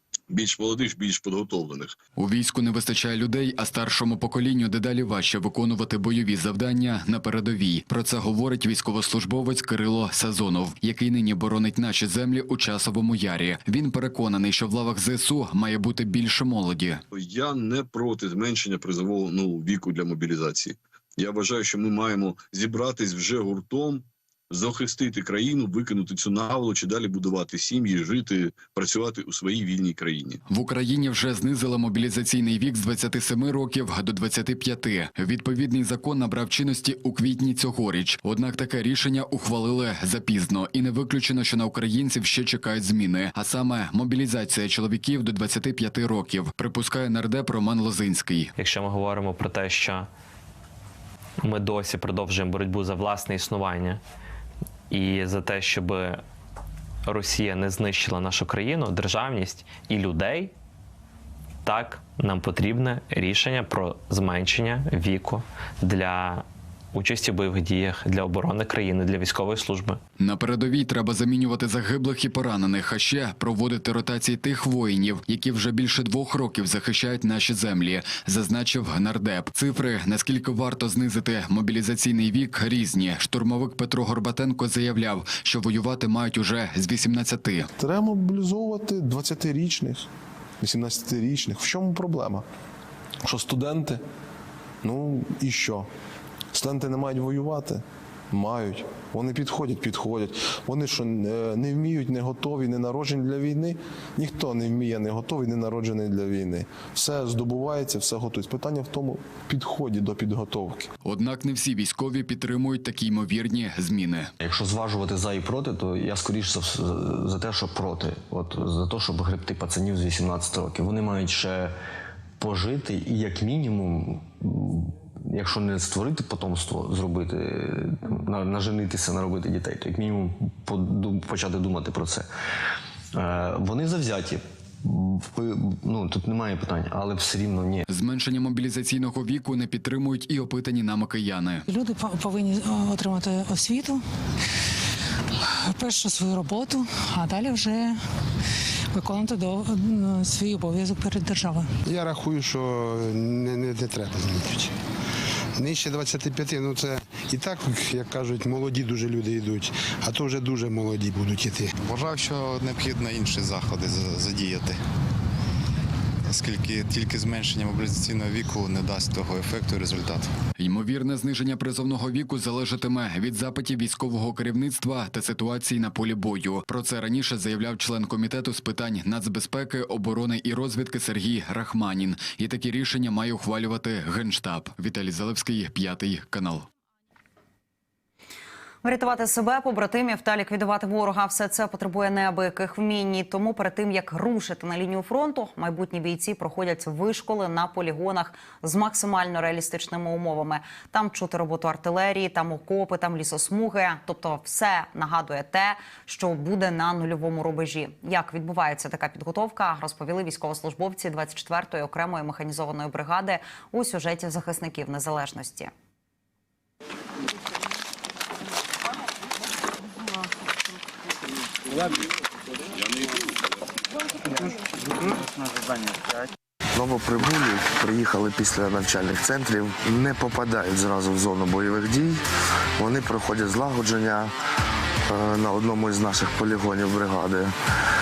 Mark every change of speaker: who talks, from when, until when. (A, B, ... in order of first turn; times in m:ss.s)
0:00.3-0:02.0 A
0:02.2-0:17.0 B
0:17.1-0:30.4 A
0:30.5-0:48.5 B
0:48.6-0:50.1 C
0:51.4-0:54.0 C
0:54.9-0:56.2 C
0:57.1-1:00.5 C
1:01.7-1:10.0 C
1:10.2-1:27.7 B
1:27.8-1:30.1 D
1:30.6-1:32.4 D
1:33.2-1:34.0 D
1:34.8-1:35.9 D
1:36.5-1:50.9 D
1:51.0-1:54.3 B
1:54.4-2:01.8 E
2:02.4-2:12.3 E
2:13.1-2:17.8 E
2:17.9-2:21.6 B
2:21.7-2:24.0 F
2:25.7-2:28.0 F
2:28.9-2:31.7 F
2:31.9-2:34.7 G
2:35.6-2:41.7 G
2:41.8-2:44.8 H
2:46.3-2:50.3 H
2:50.6-3:06.7 B
3:08.8-3:35.7 I
3:46.8-3:52.2 J
3:52.8-3:54.3 J
3:53.1-3:53.5 I
3:55.1-3:57.3 J